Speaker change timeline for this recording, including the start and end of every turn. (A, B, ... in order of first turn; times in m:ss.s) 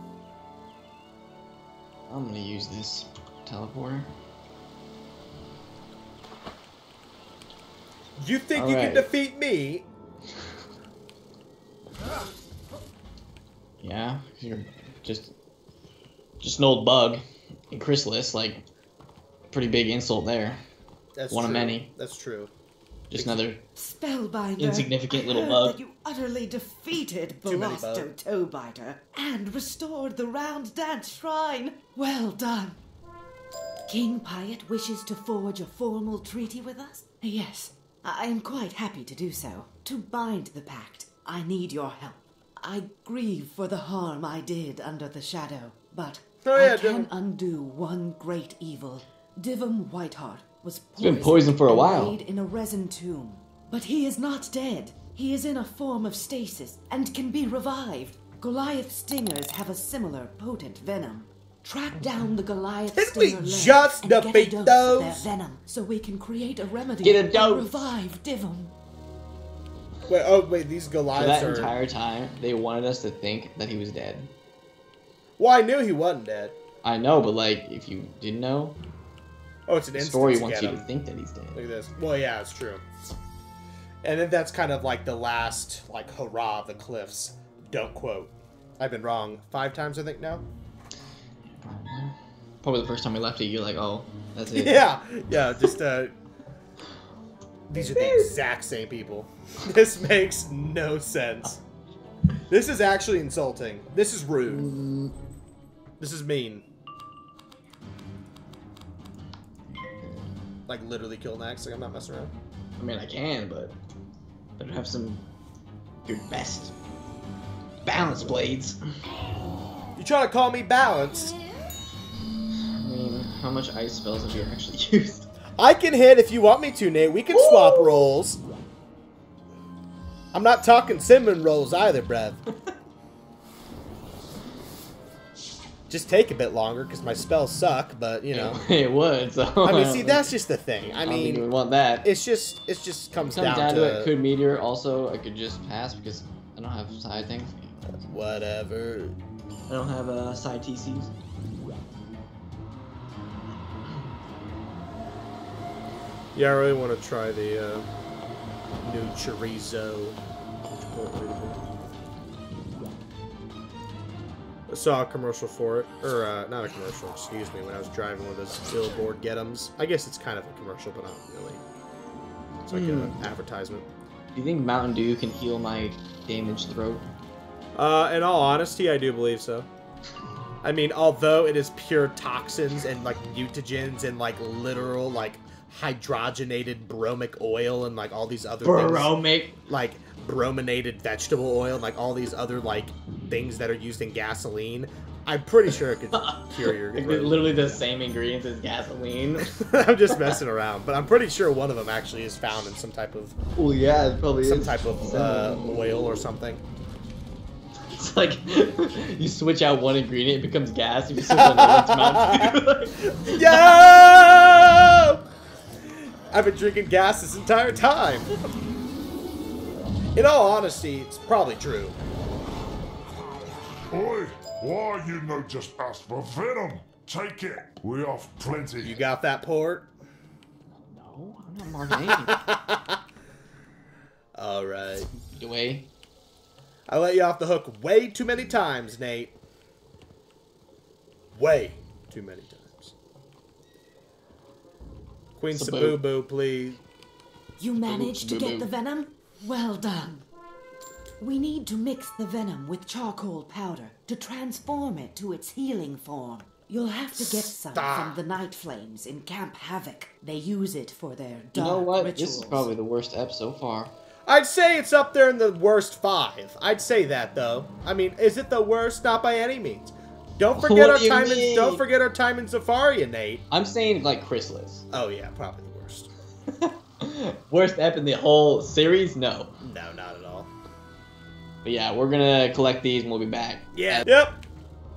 0:02.1-0:04.1 A
0:08.2-0:09.9 B
0:08.5-0:09.1 A
0:13.8-0:15.3 A
0:16.4-0:18.6 A
0:19.5-0:20.6 A
0:21.1-0:22.5 B
0:21.3-0:21.9 A
0:23.1-0:23.6 A
0:23.1-0:23.4 B
0:23.8-0:32.8 C
0:24.6-0:25.8 A
0:27.4-0:28.1 B
0:33.9-1:08.7 C
0:46.4-0:47.1 B
0:51.0-0:52.2 A
1:03.0-1:05.3 B
1:07.0-1:07.9 A
1:10.1-1:11.7 B
1:11.1-1:14.3 A
1:15.4-1:16.6 B
1:16.8-1:18.8 A
1:19.7-1:20.9 B
1:19.9-1:21.6 A
1:21.5-1:22.8 B
1:24.0-1:30.4 B
1:31.5-1:34.8 A
1:34.5-1:36.1 B
1:37.7-1:41.6 B
1:37.9-1:38.3 A
1:42.5-1:44.7 B
1:44.5-1:45.1 A
1:46.0-1:46.6 B
1:49.7-1:50.3 A
1:50.7-1:52.3 B
1:52.8-1:53.7 A
1:54.6-1:55.2 A
1:56.0-1:56.7 A
1:57.8-1:58.8 A
2:00.0-2:01.4 B
2:02.8-2:05.3 A
2:05.6-2:08.4 B
2:07.3-2:08.1 A
2:10.3-2:12.4 B
2:15.9-2:18.6 B
2:18.3-2:20.3 A
2:19.6-2:21.5 B
2:21.0-2:22.1 A
2:22.0-2:24.1 B
2:23.3-2:27.8 A
2:27.9-2:29.2 B
2:29.7-2:31.1 A
2:36.4-2:37.9 B
2:38.8-2:40.2 B
2:40.8-2:41.6 B
2:44.7-2:51.6 B
2:52.6-2:53.9 B
2:52.7-2:53.2 A
2:54.3-2:57.1 A
2:57.7-2:59.7 B
3:00.6-3:09.1 B
3:08.6-3:09.6 A
3:09.7-3:17.8 B
3:16.1-3:19.6 A
3:19.5-3:23.4 B
3:23.6-3:25.7 A
3:24.4-3:26.6 B
3:27.9-3:33.6 A
3:31.2-3:32.6 B
3:33.1-3:35.2 B
3:36.3-3:38.3 B
3:40.1-3:42.0 B
3:43.9-3:49.0 D
3:48.8-3:49.9 B
3:50.9-3:52.4 A
3:52.0-3:53.0 B
3:54.4-3:55.1 B
3:55.1-3:55.9 A
3:56.9-3:59.4 B
4:01.3-4:02.9 B
4:05.4-4:06.8 B
4:05.5-4:06.0 A
4:07.6-4:10.2 C
4:07.8-4:08.7 A
4:11.2-4:22.7 C
4:17.2-4:18.2 B
4:21.5-4:23.9 A
4:24.2-4:33.4 B
4:30.6-4:31.8 A
4:33.5-4:34.8 A
4:34.9-4:36.1 B
4:36.5-4:39.5 A
4:39.6-4:40.5 B
4:41.6-4:44.1 A
4:43.7-4:44.4 B